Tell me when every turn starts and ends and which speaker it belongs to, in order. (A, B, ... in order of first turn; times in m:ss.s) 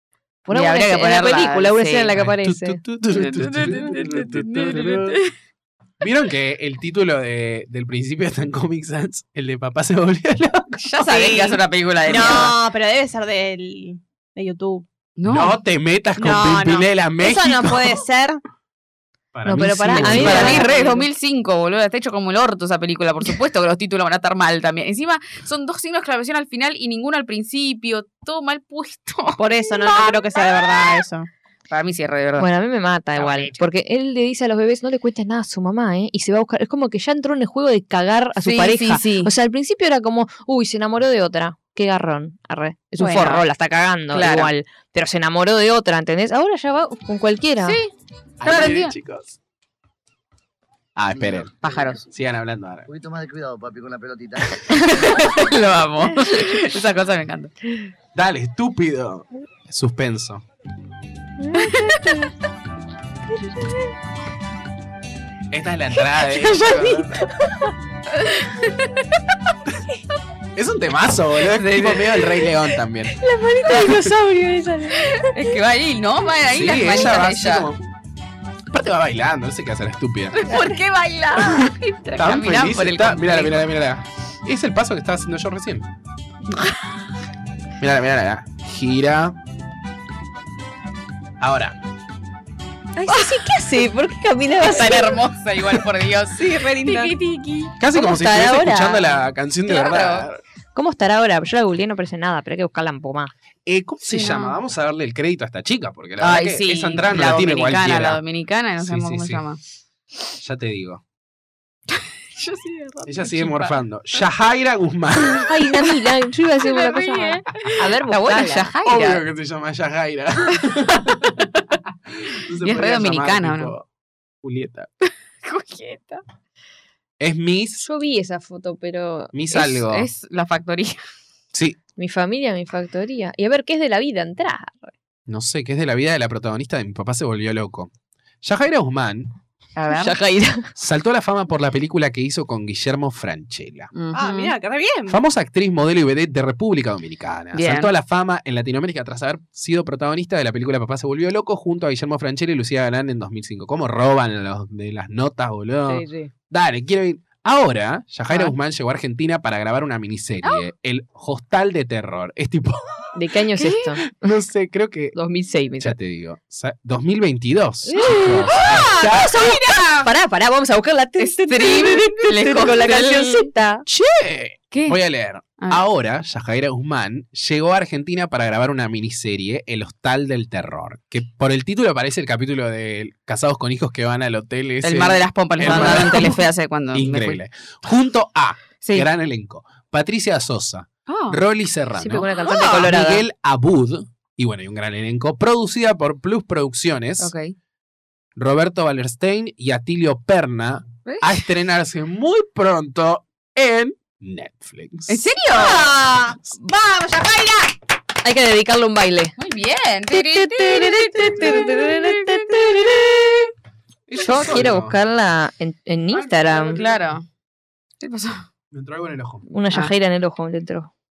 0:00.5-0:02.8 A
0:00.5-0:02.2 B
0:02.2-0:05.2 C
0:03.1-0:05.3 B
0:06.0-0:10.9 C
0:10.8-0:12.6 B
0:11.0-0:14.9 D
0:15.2-0:15.6 B
0:15.3-0:18.0 C
0:16.2-0:18.4 D
0:19.3-0:20.6 C
0:19.4-0:21.0 A
0:19.9-0:31.0 B
0:20.3-0:21.0 D
0:29.4-0:31.3 D
0:31.7-0:32.5 B
0:32.4-0:47.8 A
0:33.2-0:33.6 B
0:38.4-0:39.3 B
0:43.0-0:43.4 B
0:44.1-0:44.5 B
0:47.6-0:47.9 B
0:48.4-0:49.4 C
0:48.4-0:49.0 B
0:51.0-0:51.5 C
0:51.6-0:52.0 B
0:52.1-0:52.9 C
0:52.9-0:55.2 E
0:54.7-0:57.5 B
0:58.2-1:00.4 C
1:01.4-1:02.2 A
1:03.5-1:03.7 A
1:05.5-1:07.2 C
1:08.3-1:08.9 B
1:10.6-1:13.2 C
1:11.5-1:12.4 B
1:13.2-1:15.6 A
1:13.7-1:14.1 C
1:15.0-1:17.7 B
1:16.5-1:17.8 C
1:18.7-1:20.4 C
1:20.4-1:23.6 B
1:21.4-1:25.9 C
1:27.8-1:29.4 C
1:31.4-1:31.8 C
1:33.0-1:35.2 A
1:33.1-1:33.4 B
1:34.6-1:37.7 B
1:36.3-1:37.2 D
1:37.8-1:40.4 C
1:37.9-1:39.2 A
1:39.6-1:40.3 B
1:40.8-1:43.3 A
1:43.7-1:48.2 C
1:44.1-1:44.6 B
1:46.2-1:49.6 B
1:48.8-1:49.4 C
1:50.4-1:51.0 C
1:52.4-1:53.8 B
1:53.1-1:55.6 C
1:55.4-1:58.7 A
1:56.6-1:59.2 B
1:58.8-2:01.5 C
2:02.1-2:03.9 C
2:02.6-2:03.7 B
2:04.4-2:04.9 C
2:05.0-2:06.2 B
2:07.2-2:07.8 C
2:07.8-2:09.4 A
2:09.3-2:10.1 C
2:09.5-2:11.0 B
2:12.0-2:14.9 A
2:15.3-2:17.9 C
2:18.4-2:19.4 C
2:19.8-2:20.2 B
2:19.9-2:20.7 A
2:20.8-2:23.9 C
2:24.0-2:24.5 B
2:24.1-2:25.2 D
2:25.1-2:43.2 C
2:27.5-2:27.9 B
2:35.9-2:36.3 A
2:43.2-2:44.1 A
2:43.6-2:44.0 B
2:44.0-2:45.2 C
2:45.2-2:46.0 A
2:45.8-2:49.4 C
2:47.9-2:53.8 A
2:48.4-2:50.1 D
2:51.2-2:53.5 B
2:53.9-3:06.4 C
2:54.7-2:55.0 B
3:04.8-3:07.4 B
3:05.7-3:05.9 A
3:06.9-3:17.3 C
3:08.8-3:09.1 B
3:11.1-3:11.4 B
3:12.0-3:12.9 B
3:12.0-3:13.2 A
3:17.2-3:17.5 B
3:18.4-3:25.2 C
3:21.1-3:21.4 B
3:25.1-3:25.9 B
3:25.5-3:27.8 D
3:28.2-3:29.4 A
3:29.4-3:33.0 B
3:30.1-3:33.5 A
3:34.1-3:35.0 C
3:34.2-3:36.8 A
3:36.1-3:37.3 B
3:38.0-3:38.5 B
3:38.7-3:39.5 C
3:39.5-3:40.9 A